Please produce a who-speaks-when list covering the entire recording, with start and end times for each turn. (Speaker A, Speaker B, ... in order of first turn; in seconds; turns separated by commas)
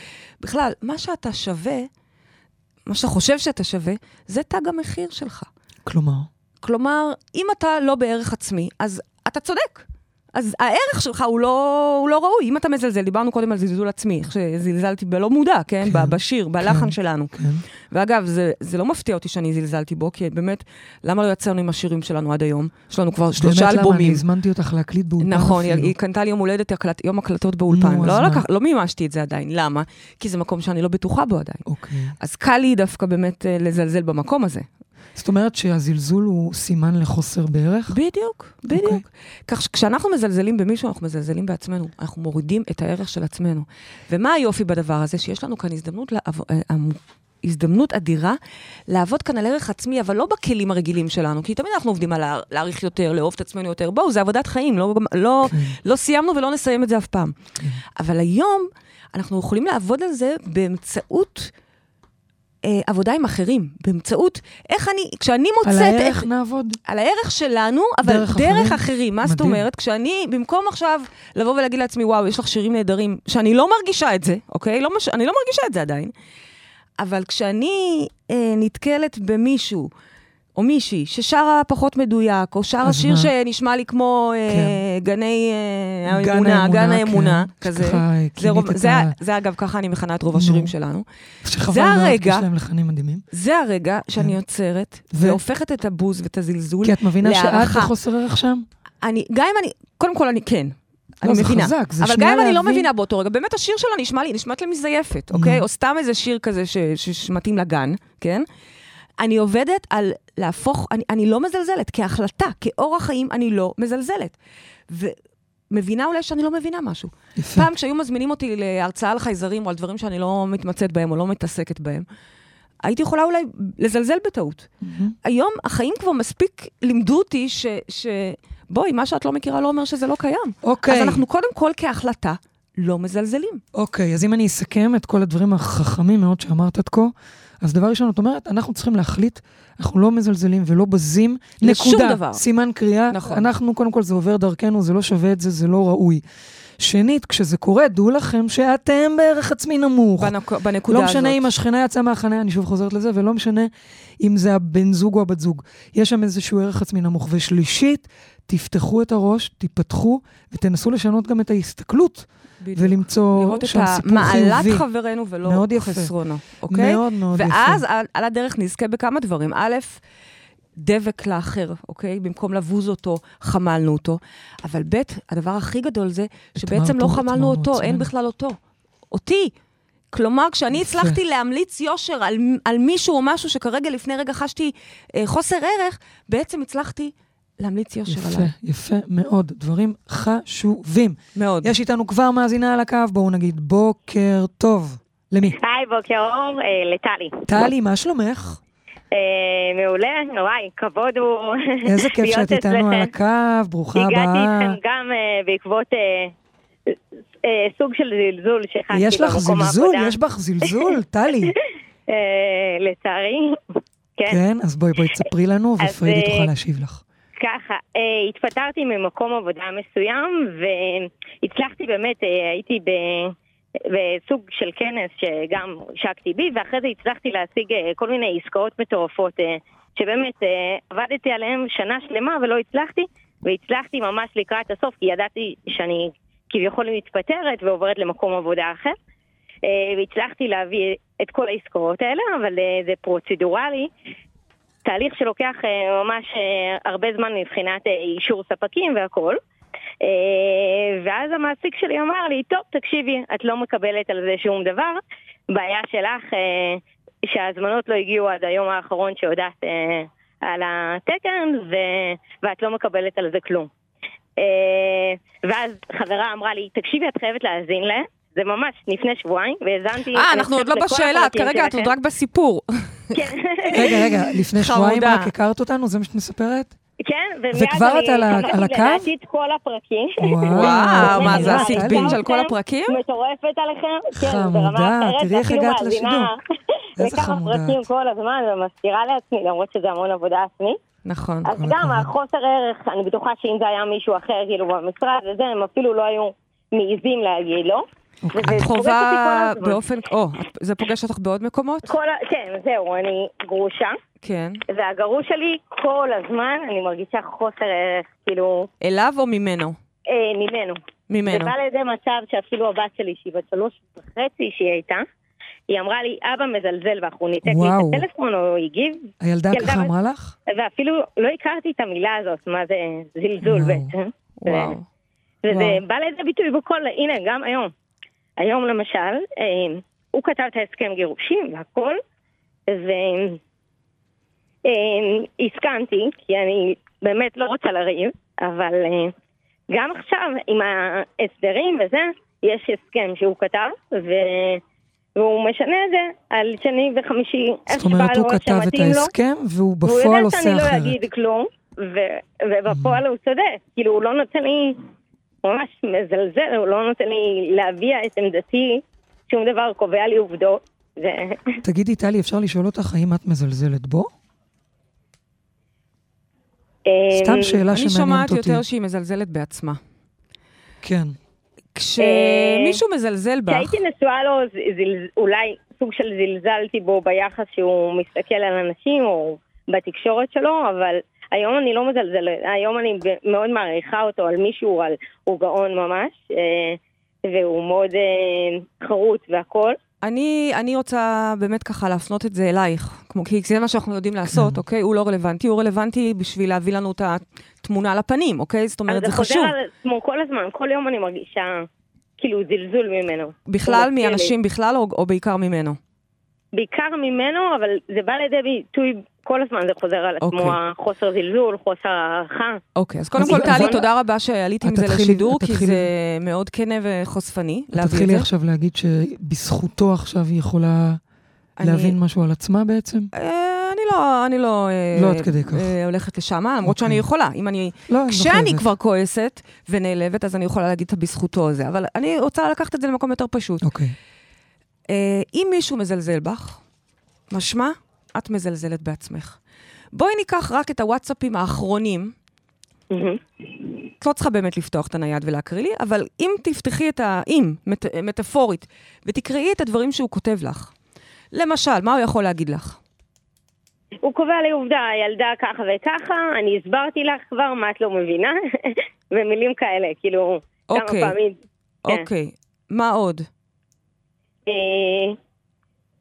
Speaker A: 0.4-1.9, Speaker A: 2.9-5.5, Speaker B: 5.8-6.3, Speaker A: 6.6-17.4, Speaker B: 15.8-17.6, Speaker A: 17.9-24.2, Speaker B: 23.4-25.9, Speaker A: 25.2-31.6, Speaker B: 27.7-28.4, Speaker B: 31.6-32.1, Speaker A: 32.2-34.6, Speaker B: 35.1-38.0, Speaker A: 37.9-57.3, Speaker B: 38.7-39.0, Speaker B: 55.5-55.8, Speaker A: 57.9-61.5, Speaker A: 62.6-66.3, Speaker B: 65.6-66.8, Speaker A: 66.8-76.1, Speaker B: 68.0-69.6, Speaker A: 77.0-79.9, Speaker A: 80.5-91.0, Speaker B: 82.8-83.3, Speaker B: 84.5-84.8, Speaker B: 86.1-89.1, Speaker B: 90.3-90.7, Speaker B: 91.4-93.2, Speaker A: 91.7-92.5, Speaker A: 93.3-97.9, Speaker B: 95.1-95.4, Speaker B: 96.8-98.7, Speaker A: 99.0-108.5, Speaker B: 101.2-102.9, Speaker B: 105.3-105.6, Speaker A: 109.2-114.3, Speaker A: 114.9-115.2, Speaker A: 115.7-122.0, Speaker B: 117.3-117.7, Speaker A: 122.8-124.7, Speaker B: 124.8-125.1, Speaker A: 125.2-133.6, Speaker B: 130.6-131.2, Speaker B: 133.7-146.2, Speaker A: 141.6-142.4, Speaker A: 143.1-143.5, Speaker B: 146.8-150.3, Speaker A: 150.2-151.5, Speaker B: 150.9-164.9, Speaker A: 162.6-170.0, Speaker B: 165.4-166.1, Speaker B: 166.7-167.8, Speaker A: 170.8-178.6, Speaker B: 176.6-178.1, Speaker A: 179.1-179.5, Speaker A: 180.1-188.5, Speaker B: 180.7-181.2, Speaker B: 188.1-195.6, Speaker A: 191.3-191.7, Speaker C: 195.6-197.6, Speaker B: 197.5-198.6, Speaker C: 199.1-203.1, Speaker B: 201.8-204.8, Speaker C: 203.9-206.3, Speaker C: 206.9-213.6, Speaker B: 208.9-211.6, Speaker B: 214.3-217.0, Speaker C: 215.8-216.5, Speaker C: 217.4-238.9, Speaker C: 239.6-243.9, Speaker C: 244.8-249.4, Speaker C: 250.0-263.7, Speaker C: 264.4-271.9, Speaker A: 270.1-273.3, Speaker C: 273.1-274.1, Speaker B: 273.7-276.7, Speaker A: 274.5-275.3, Speaker C: 277.0-286.4, Speaker B: 277.5-279.1, Speaker B: 280.2-282.2, Speaker A: 280.5-283.0, Speaker B: 284.1-286.3, Speaker B: 287.0-287.8, Speaker C: 287.0-290.8, Speaker A: 291.0-291.5, Speaker C: 291.4-299.8, Speaker B: 291.5-292.1, Speaker B: 298.2-298.6, Speaker A: 298.5-301.9, Speaker C: 301.9-304.0, Speaker A: 304.2-304.6, Speaker C: 304.7-308.7, Speaker A: 308.8-309.8, Speaker C: 310.1-315.0, Speaker A: 311.1-311.5, Speaker C: 315.7-319.9, Speaker B: 317.4-318.1, Speaker B: 319.2-320.3, Speaker C: 320.5-324.7, Speaker B: 323.4-323.9, Speaker A: 324.4-324.8, Speaker C: 325.4-327.7, Speaker A: 325.5-325.8, Speaker C: 328.4-332.0, Speaker C: 332.7-333.4, Speaker C: 334.6-339.1, Speaker C: 339.7-344.6, Speaker C: 345.1-349.1, Speaker B: 347.7-351.0, Speaker C: 349.8-354.8, Speaker B: 352.7-353.0, Speaker C: 355.4-361.6, Speaker B: 361.6-364.1, Speaker C: 366.9-367.6, Speaker B: 367.1-368.6, Speaker A: 367.7-369.8, Speaker B: 370.8-371.1, Speaker A: 371.7-373.7, Speaker C: 372.0-372.8, Speaker C: 373.5-389.8, Speaker A: 390.0-399.5, Speaker B: 394.3-394.6, Speaker C: 398.9-401.7, Speaker C: 402.2-404.3, Speaker A: 403.5-405.8, Speaker C: 406.5-412.6, Speaker A: 410.2-410.6, Speaker A: 412.8-418.3, Speaker B: 413.1-413.8, Speaker C: 413.2-413.8, Speaker B: 414.6-415.9, Speaker B: 417.7-421.0, Speaker A: 421.6-422.0, Speaker B: 421.6-423.1, Speaker A: 423.1-433.6, Speaker B: 424.9-425.7, Speaker B: 426.6-427.0, Speaker B: 427.9-428.7, Speaker B: 433.6-433.9, Speaker A: 434.9-436.6, Speaker A: 437.3-439.4, Speaker A: 439.9-442.1, Speaker C: 442.9-443.2, Speaker A: 444.0-450.7, Speaker A: 451.3-452.8, Speaker C: 454.0-461.4, Speaker A: 460.7-461.1, Speaker A: 461.8-463.3, Speaker C: 464.4-465.2